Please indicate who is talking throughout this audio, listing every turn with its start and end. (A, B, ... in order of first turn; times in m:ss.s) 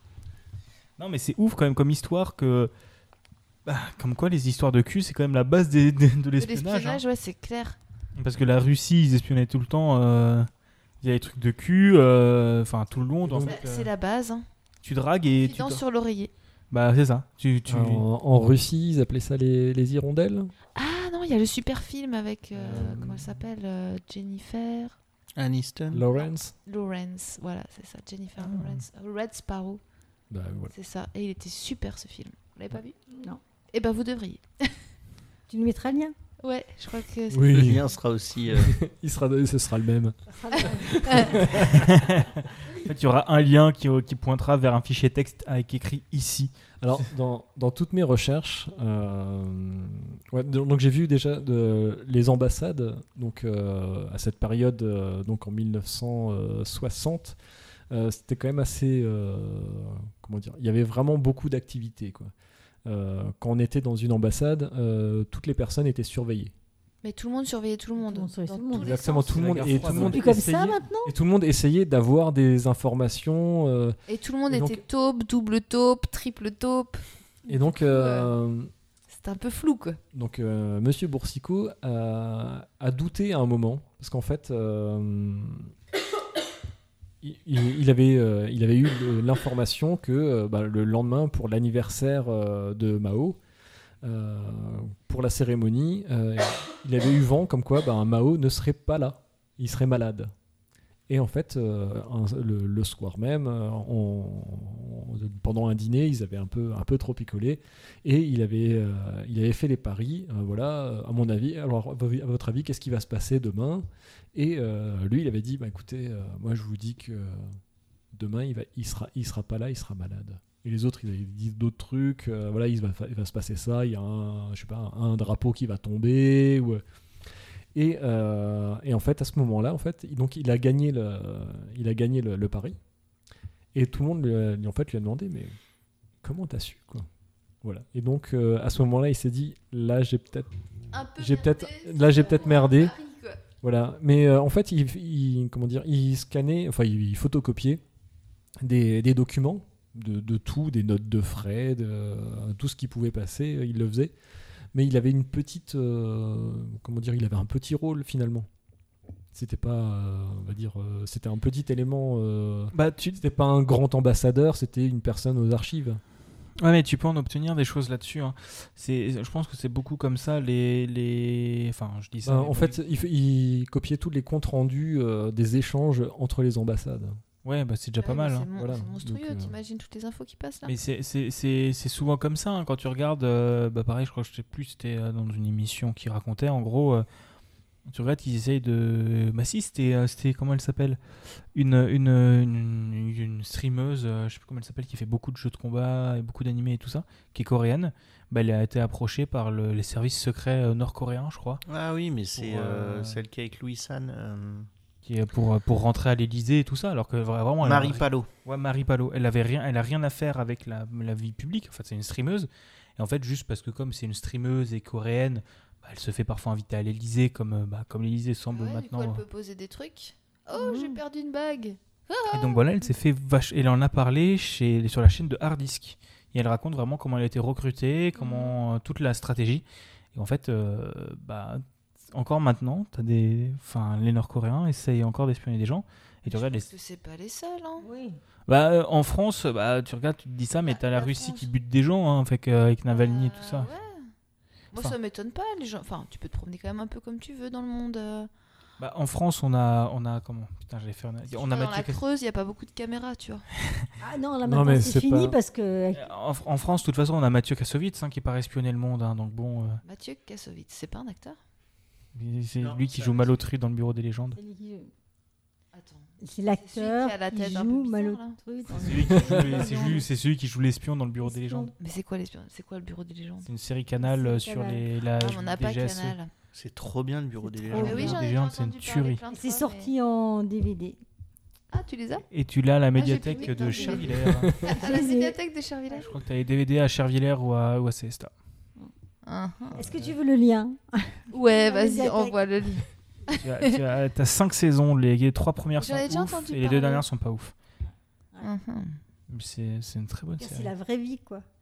0:01.0-0:02.7 A
0:03.6-0:07.0 A
0:06.4-0:07.8 B
0:08.2-0:10.5 A
0:11.0-0:13.9 A
0:13.2-0:13.6 C
0:13.4-0:14.4 B
0:14.8-0:15.8 A
0:15.4-0:16.3 B
0:16.7-0:18.0 A
0:17.7-0:20.5 C
0:20.7-0:25.0 B
0:22.6-0:23.0 A
0:22.6-0:23.3 C
0:25.4-0:26.0 D
0:25.9-0:26.5 C
0:26.6-0:29.8 B
0:28.4-0:28.8 A
0:30.3-0:30.7 C
0:30.7-0:33.0 B
0:33.1-0:33.4 E
0:33.7-0:34.7 B
0:35.5-0:36.1 E
0:36.4-0:37.5 B
0:37.3-0:37.8 C
0:37.5-0:38.8 D
0:38.5-0:41.9 C
0:40.3-0:41.6 E
0:41.1-0:41.4 B
0:41.5-0:46.5 A
0:46.8-0:57.4 C
0:57.9-1:02.3 C
1:02.8-1:06.5 C
1:07.0-1:10.0 B
1:08.0-1:09.0 E
1:08.7-1:14.8 C
1:09.2-1:10.3 A
1:09.8-1:11.1 E
1:14.1-1:18.3 B
1:17.5-1:18.7 C
1:19.1-1:20.0 B
1:20.1-1:25.7 C
1:27.2-1:33.4 C
1:34.0-1:40.3 C
1:41.1-1:57.6 C
1:58.1-2:06.8 C
2:07.7-2:12.8 C
2:13.7-2:15.5 C
2:16.2-2:17.1 C
2:17.6-2:20.5 C
2:20.9-2:23.4 B
2:21.2-2:22.9 C
2:23.6-2:27.8 C
2:28.6-2:34.1 C
2:34.7-2:38.5 C
2:39.3-2:46.0 C
2:42.7-2:43.2 A
2:46.6-2:52.8 A
2:52.2-2:57.2 C
2:57.4-2:58.5 A
2:58.0-3:00.7 B
2:58.6-2:59.5 C
3:00.6-3:07.0 A
3:07.9-3:11.0 A
3:11.5-3:21.6 A
3:21.6-3:24.7 D
3:22.3-3:23.2 A
3:25.0-3:39.2 A
3:27.6-3:28.3 D
3:38.5-3:42.6 B
3:40.5-3:41.0 E
3:42.3-3:49.6 A
3:50.1-3:56.7 A
3:56.3-3:57.8 B
3:57.8-3:58.2 E
3:58.5-4:03.7 A
4:00.7-4:01.5 B
4:02.9-4:04.0 B
4:04.7-4:08.3 B
4:08.8-4:12.0 A
4:11.3-4:13.4 B
4:14.0-4:16.1 E
4:14.4-4:15.4 C
4:15.9-4:19.8 A
4:19.8-4:21.4 B
4:22.1-4:24.4 A
4:22.6-4:23.4 D
4:24.4-4:24.9 E
4:25.7-4:26.1 B
4:26.2-4:30.1 E
4:26.6-4:28.4 B
4:28.7-4:31.7 A
4:29.4-4:30.0 B
4:31.2-4:31.7 E
4:31.8-4:33.5 B
4:33.4-4:36.2 A
4:34.0-4:34.8 E
4:35.2-4:36.3 B
4:36.5-4:38.2 D
4:37.4-4:38.2 E
4:37.7-4:39.2 A
4:37.7-4:39.9 B
4:39.3-4:41.0 E
4:41.7-4:42.2 B
4:42.3-4:44.6 A
4:43.0-4:46.1 B
4:43.2-4:45.4 E
4:44.4-4:44.7 C
4:45.9-4:48.3 A
4:49.2-4:49.8 B
4:49.7-4:52.4 E
4:51.3-4:53.8 B
4:53.4-4:57.5 A
4:55.8-4:57.0 B
4:58.4-4:59.0 B
4:59.3-5:00.7 A
5:00.4-5:01.4 E